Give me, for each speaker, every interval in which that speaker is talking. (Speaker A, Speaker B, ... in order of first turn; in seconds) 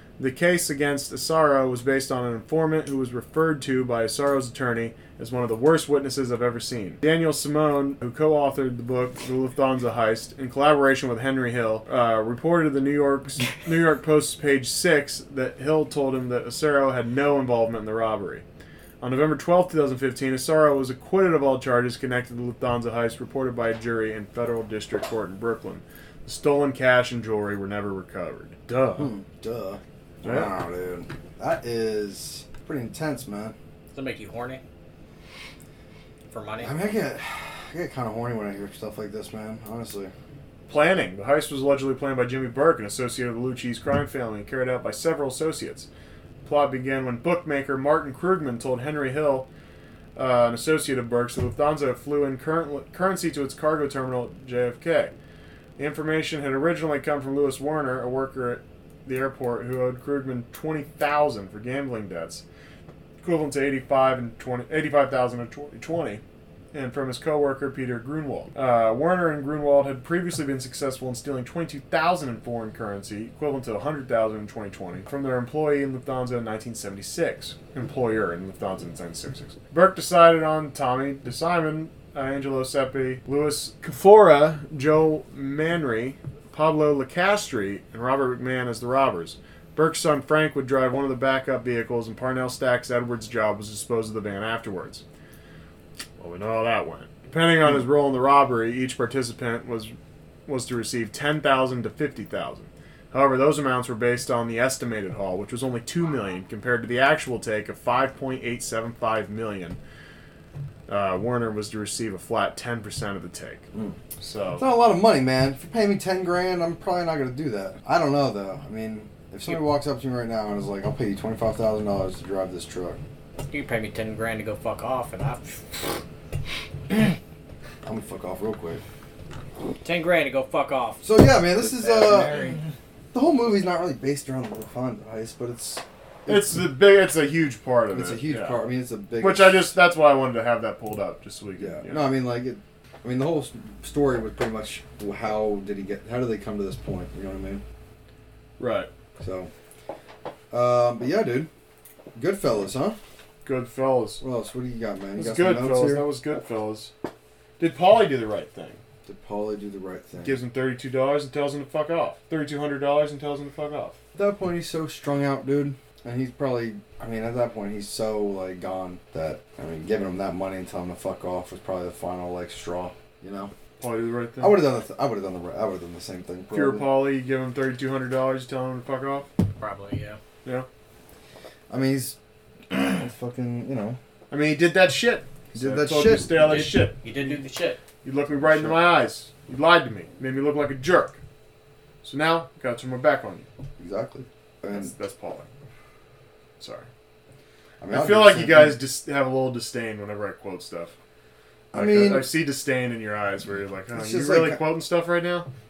Speaker A: 0.2-18.4, 19.0-29.1, 30.2-30.5, 40.7-45.9, 46.4-49.5, 50.2-55.1, 55.8-62.4, 63.2-66.2, 66.7-95.0, 96.2-100.0, 100.5-109.8, 110.9-113.7, 114.2-114.7, 136.3-138.6, 139.2-142.1, 148.6-148.9, 153.4-154.2, 155.2-156.9, 157.6-158.8, 160.2-164.0, 173.8-174.6, 176.5-179.3, 184.3-187.0, 188.0-191.2, 192.0-193.5, 194.7-195.5, 196.6-196.9, 197.9-200.9, 201.7-205.5
Speaker B: 29.0-33.5, 36.6-40.1, 114.6-123.0, 127.8-128.8, 131.0-132.5, 133.1-136.6, 137.9-139.7, 141.6-147.6, 149.2-149.5, 150.5-151.5, 152.2-153.0, 154.2-156.1, 159.1-160.4, 164.2-173.5, 174.4-176.9, 181.7-182.2, 182.7-184.0, 185.5-186.6, 188.4-188.9, 193.8-194.9, 197.8-198.8, 201.7-202.3, 203.9-204.7
Speaker C: 33.9-34.6, 36.3-36.8, 123.5-125.8, 129.8-132.6, 179.6-180.2, 186.3-187.8